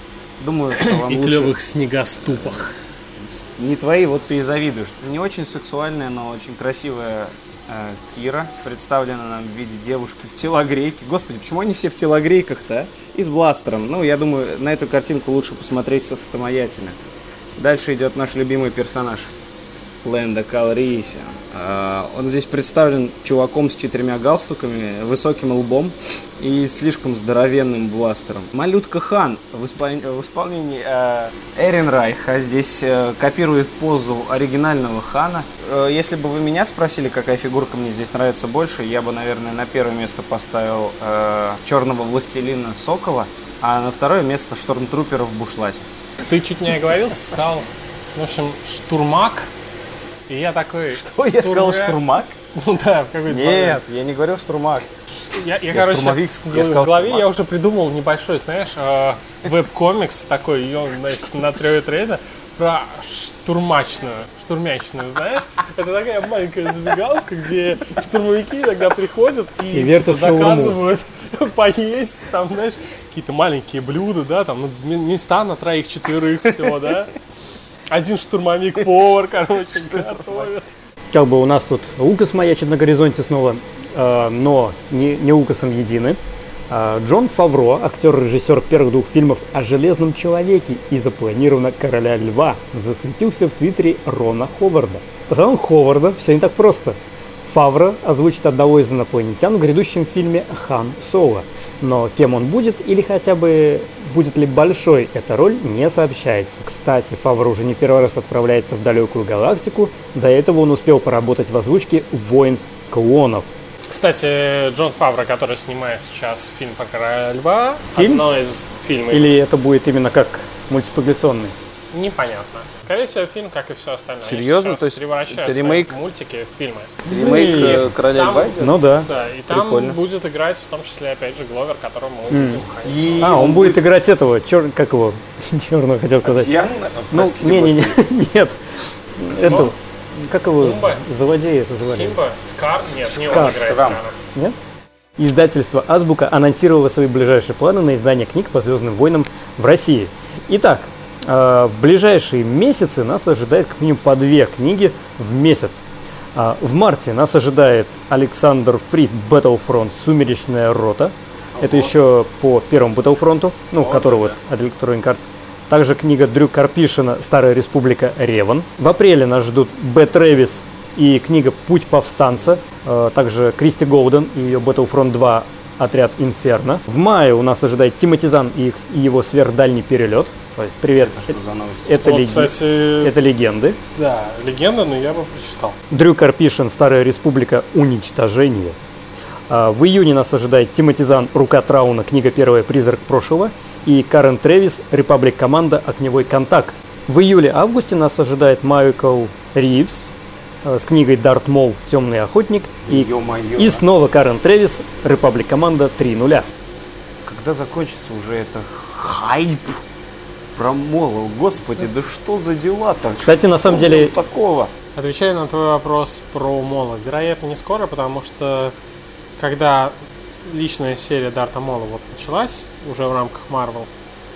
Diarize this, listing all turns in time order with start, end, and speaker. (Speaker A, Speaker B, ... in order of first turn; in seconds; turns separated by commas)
Speaker A: 0.4-1.6, Speaker B: 0.7-2.8, Speaker A: 2.2-2.7, Speaker A: 3.3-17.0, Speaker A: 17.6-19.3, Speaker A: 20.0-45.9, Speaker B: 46.2-49.5, Speaker B: 50.3-52.0, Speaker A: 50.9-52.4, Speaker B: 52.6-53.8, Speaker A: 53.3-54.9, Speaker B: 55.1-77.2, Speaker A: 55.7-57.3, Speaker C: 69.7-70.8, Speaker B: 77.9-80.7, Speaker C: 81.1-86.2, Speaker C: 86.7-113.5, Speaker B: 113.8-119.4, Speaker C: 117.9-118.2, Speaker C: 119.1-121.5, Speaker B: 121.9-133.4, Speaker A: 124.2-126.0, Speaker A: 127.0-128.8, Speaker C: 127.1-127.9, Speaker C: 128.6-129.1, Speaker A: 129.5-130.0, Speaker C: 132.3-132.6, Speaker A: 132.8-133.9, Speaker C: 133.2-136.5, Speaker A: 136.2-138.1, Speaker C: 137.1-142.2, Speaker A: 139.3-139.7, Speaker B: 139.4-139.7, Speaker B: 140.6-141.0, Speaker B: 141.8-144.2, Speaker A: 143.0-144.1, Speaker C: 143.2-143.6, Speaker C: 145.2-155.8, Speaker C: 156.3-183.8, Speaker A: 161.6-161.9, Speaker A: 163.8-164.4, Speaker A: 181.0-182.0, Speaker B: 182.0-183.1, Speaker B: 183.9-185.8, Speaker C: 185.9-188.8, Speaker C: 189.5-200.1, Speaker C: 200.6-206.5, Speaker A: 202.9-203.8, Speaker A: 207.2-209.8, Speaker A: 210.6-214.7, Speaker C: 213.2-214.2, Speaker B: 215.0-218.7, Speaker B: 219.4-223.9